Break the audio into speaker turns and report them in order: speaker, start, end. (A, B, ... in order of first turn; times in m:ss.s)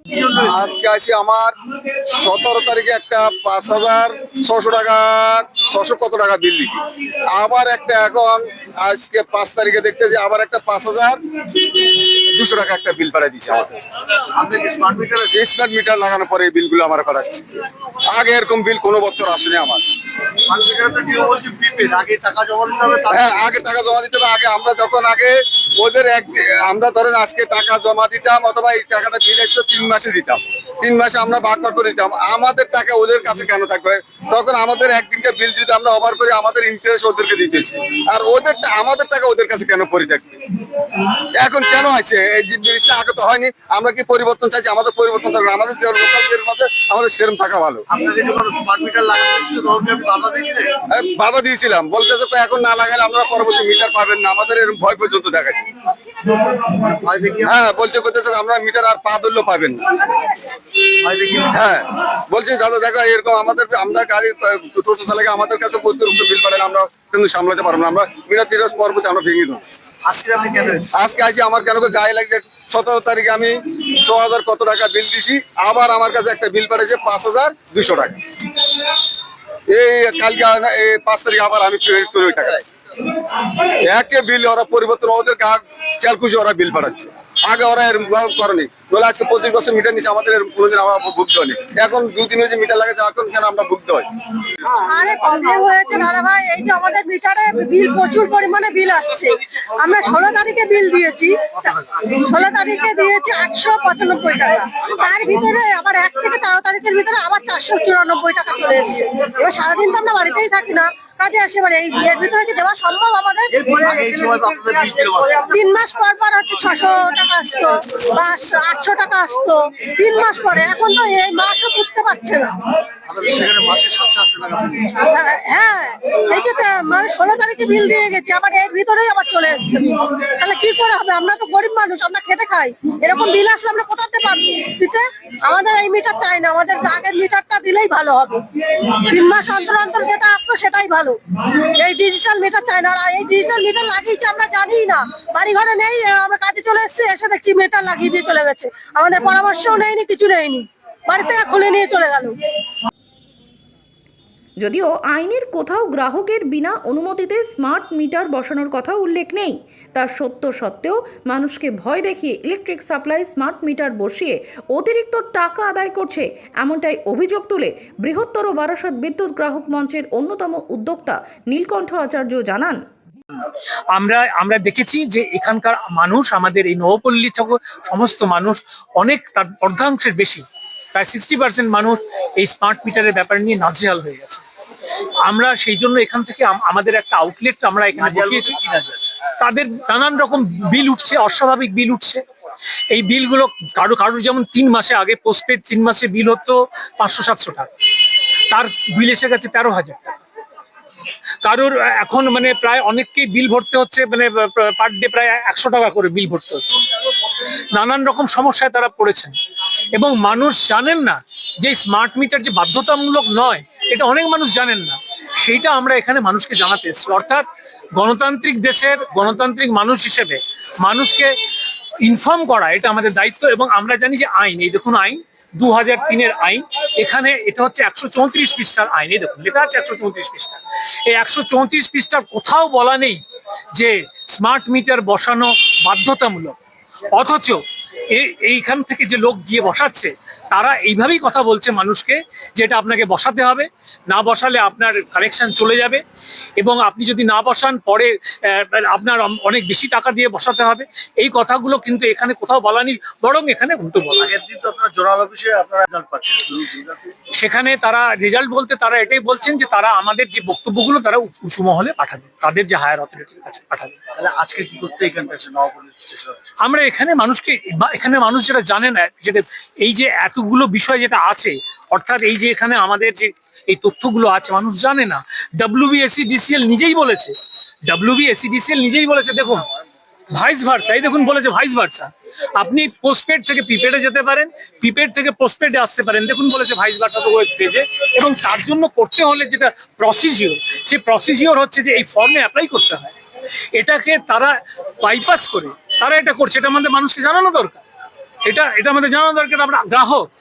0:00.1-0:00.4 A
0:00.4-0:01.6 B
0:02.1-0:13.9 B
0:14.3-0:15.4 A
0:15.3-0:17.5 B
0:18.1-0:19.8 B
0:20.5-0:23.4 A
0:23.1-0:40.4 B
0:41.4-0:47.9 B
0:47.9-0:50.8 A
0:50.9-0:55.7 B
0:56.7-0:57.6 A
0:57.4-1:00.0 B
1:01.0-1:01.7 A
1:01.5-1:09.6 B
1:10.0-1:11.0 A
1:10.9-1:18.2 B
1:19.7-1:22.6 B
1:23.6-1:34.1 B
1:34.7-1:53.5 C
1:53.6-1:55.5 A
1:55.5-2:02.5 C
2:03.1-2:05.0 A
2:05.1-2:32.4 C
2:34.6-2:52.8 D
2:54.0-3:04.4 E
3:05.3-3:08.6 E
3:08.0-3:09.0 A
3:09.4-3:12.2 E
3:12.9-3:17.7 E
3:18.5-3:20.2 E
3:21.4-3:26.8 E
3:27.7-3:29.4 E
3:30.0-3:37.4 E
3:38.0-3:41.3 E
3:42.0-3:53.2 E
3:53.8-3:56.6 E
3:57.2-3:57.6 E
3:58.1-4:06.0 E
4:06.6-4:14.4 E
4:14.2-4:17.1 A
4:17.4-4:24.0 E
4:24.2-4:26.5 A
4:26.6-4:37.3 E
4:37.9-4:39.7 E
4:40.3-4:53.1 E
4:53.7-4:57.8 E
4:58.5-5:00.3 E